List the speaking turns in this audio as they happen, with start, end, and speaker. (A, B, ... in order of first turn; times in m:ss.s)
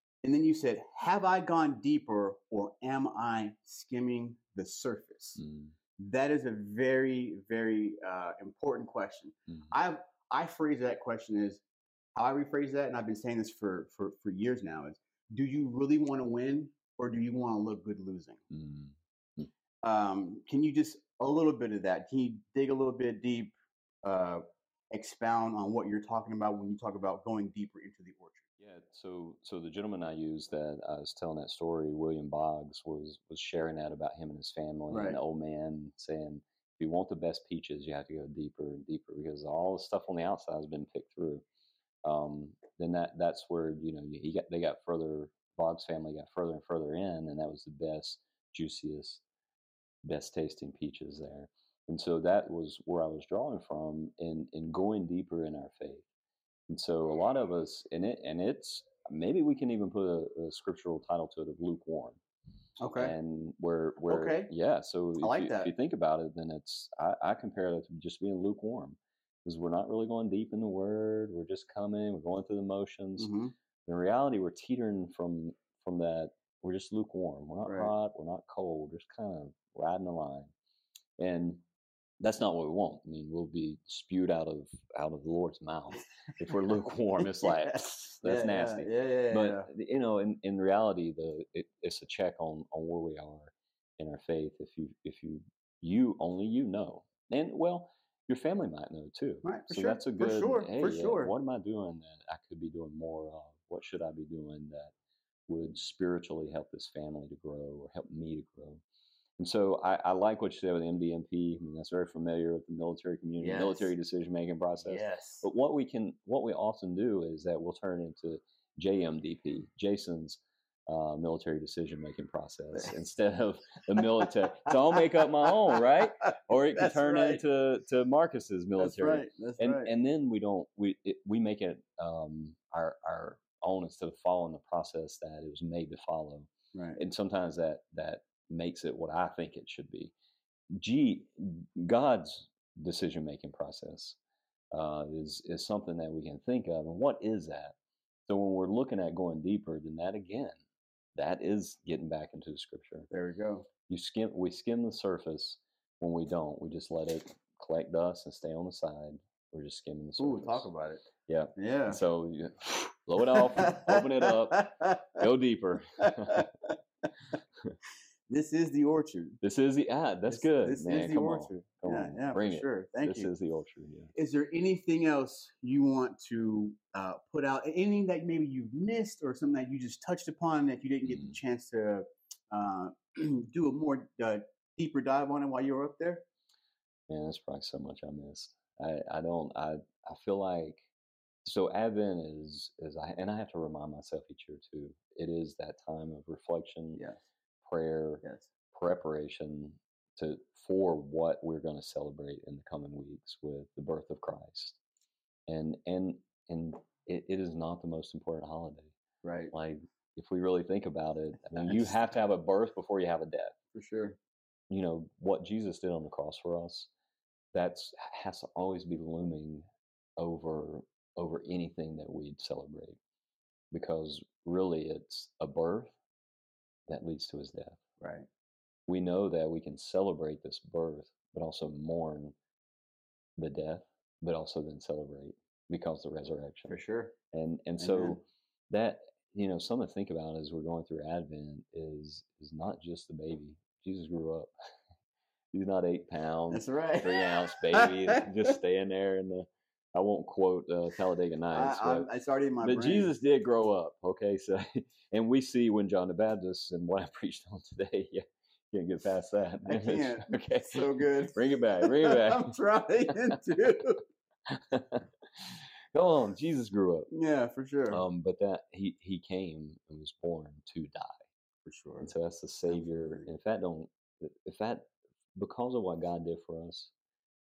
0:00.2-0:05.4 A
0:05.4-0:05.7 B
0:06.0-0:11.6 A
0:12.1-0:18.4 A
0:18.5-0:19.5 B
0:19.8-0:28.4 A
0:28.6-0:41.4 B
0:34.9-0:35.2 A
0:42.0-0:49.2 B
0:50.0-0:56.0 B
0:56.7-1:02.2 B
1:02.8-1:03.1 A
1:03.0-1:13.3 B
1:04.0-1:04.5 A
1:05.2-1:05.7 A
1:13.2-1:13.5 A
1:13.8-1:20.5 B
1:17.6-1:17.9 A
1:21.2-1:21.6 B
1:22.2-1:44.9 B
1:28.2-1:29.7 A
1:39.4-1:41.3 A
1:45.5-1:48.8 B
1:49.4-2:20.1 B
1:53.4-1:53.9 A
1:54.8-1:55.4 A
2:05.7-2:07.4 A
2:08.8-2:09.9 A
2:16.7-2:17.0 A
2:20.7-2:24.2 B
2:24.7-2:27.7 B
2:28.3-2:30.6 B
2:31.1-2:33.1 B
2:33.1-2:33.7 A
2:33.9-2:40.7 B
2:40.2-2:41.0 A
2:41.2-2:46.5 B
2:41.6-2:42.0 A
2:43.3-2:45.2 A
2:46.0-2:46.7 A
2:48.3-2:49.4 A
2:49.4-2:54.1 B
2:50.3-2:53.3 A
2:54.1-3:06.2 A
3:01.0-3:01.4 B
3:07.1-3:10.8 B
3:11.4-3:17.0 B
3:17.0-3:17.2 A
3:17.6-3:24.8 B
3:25.5-3:28.9 B
3:29.2-3:29.5 A
3:29.5-3:33.6 B
3:31.6-3:31.9 A
3:33.7-3:34.2 A
3:34.7-3:36.9 B
3:37.5-3:39.6 B
3:40.2-3:43.0 B
3:43.7-3:45.9 B
3:46.9-3:47.8 B
3:48.0-3:48.3 A
3:48.9-3:52.3 B
3:53.4-3:56.8 B
3:56.7-3:57.1 A
3:57.3-4:04.5 B
3:57.8-3:58.2 A
4:05.5-4:12.1 B
4:06.5-4:08.5 A
4:11.5-4:13.1 A
4:12.6-4:22.5 B
4:19.6-4:24.0 A
4:24.5-4:27.1 B
4:27.1-4:28.0 A
4:27.9-4:31.2 B
4:31.6-4:32.1 A
4:32.0-4:36.9 B
4:32.7-4:33.3 A